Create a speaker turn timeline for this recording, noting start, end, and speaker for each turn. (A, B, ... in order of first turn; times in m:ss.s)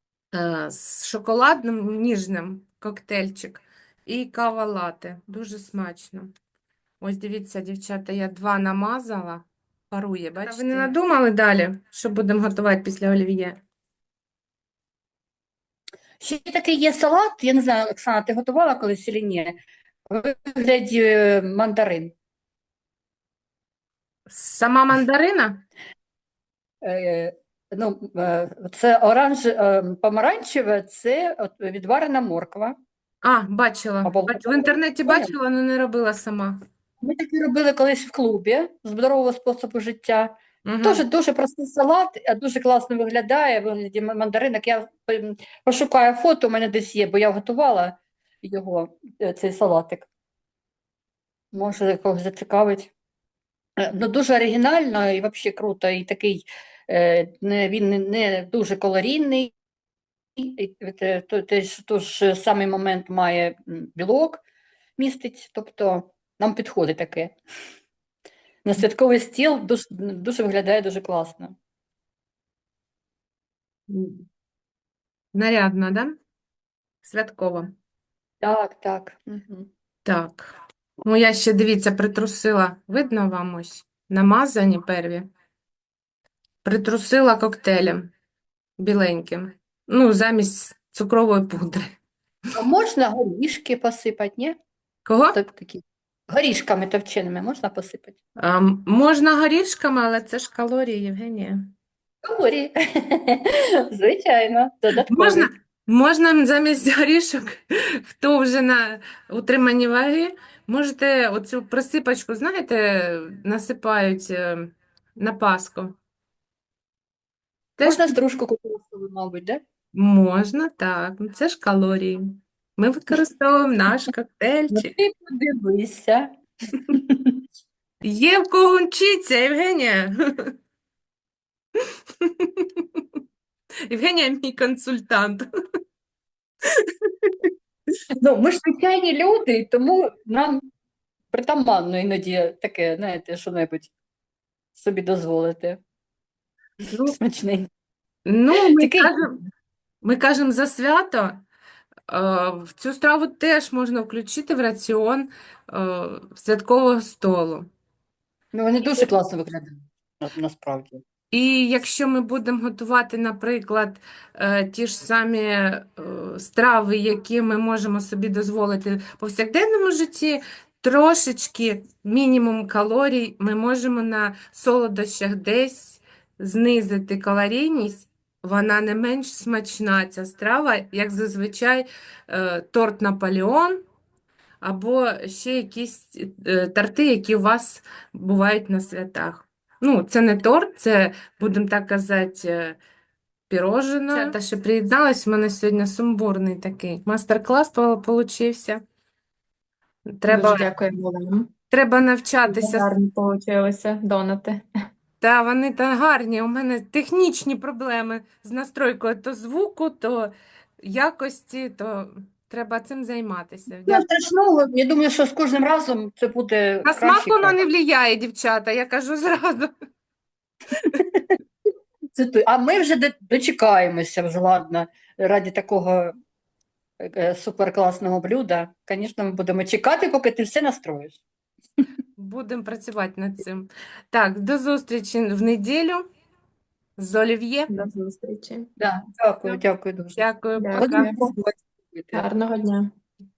0:00.3-0:06.3 A
0:07.0-0:13.6 A
0:16.2-0:19.6 B
0:20.1-0:22.1 B
0:24.3-0:25.6 A
0:26.8-0:32.8 B
0:33.2-0:36.6 A
0:34.0-0:35.3 B
0:37.0-0:50.1 B
0:40.6-0:41.0 A
0:51.5-0:52.9 B
0:53.8-0:59.5 B
1:00.4-1:04.4 B
1:05.0-1:07.4 B
1:08.6-1:11.6 B
1:13.9-1:14.2 A
1:15.3-1:16.2 A
1:17.0-1:17.7 A
1:18.4-1:19.7 B
1:20.0-1:25.3 A
1:26.6-1:28.1 A
1:28.8-1:31.9 A
1:32.6-1:34.6 B
1:35.0-1:35.4 A
1:35.3-1:38.2 B
1:38.4-1:41.7 A
1:42.2-1:45.5 B
1:44.9-1:56.0 A
1:57.8-1:58.1 A
1:57.8-1:59.6 B
1:59.9-2:04.9 A
2:04.7-2:07.4 B
2:08.0-2:10.5 A
2:12.2-2:13.0 A
2:13.9-2:15.5 A
2:18.2-2:20.6 B
2:21.3-2:23.9 B
2:24.7-2:25.8 B
2:26.9-2:27.2 A
2:27.0-2:27.7 B
2:28.2-2:29.4 A
2:28.8-2:29.2 B
2:30.0-2:31.4 A
2:32.1-2:37.7 A
2:38.5-2:41.0 B
2:41.3-3:03.8 A
3:04.6-3:12.8 A
3:13.5-3:18.8 A
3:20.2-3:20.7 A
3:20.3-3:21.5 C
3:21.7-3:22.9 A
3:22.5-3:24.6 C
3:25.2-3:34.0 A
3:33.9-3:37.6 B
3:36.8-3:39.7 A
3:42.1-3:46.1 B
3:47.0-3:51.2 B
3:52.2-3:56.1 A
3:57.0-3:57.7 A
3:57.7-3:58.7 C
3:58.8-4:00.2 B
4:00.2-4:01.1 A
4:00.6-4:01.2 C
4:00.8-4:02.3 B
4:02.1-4:02.9 C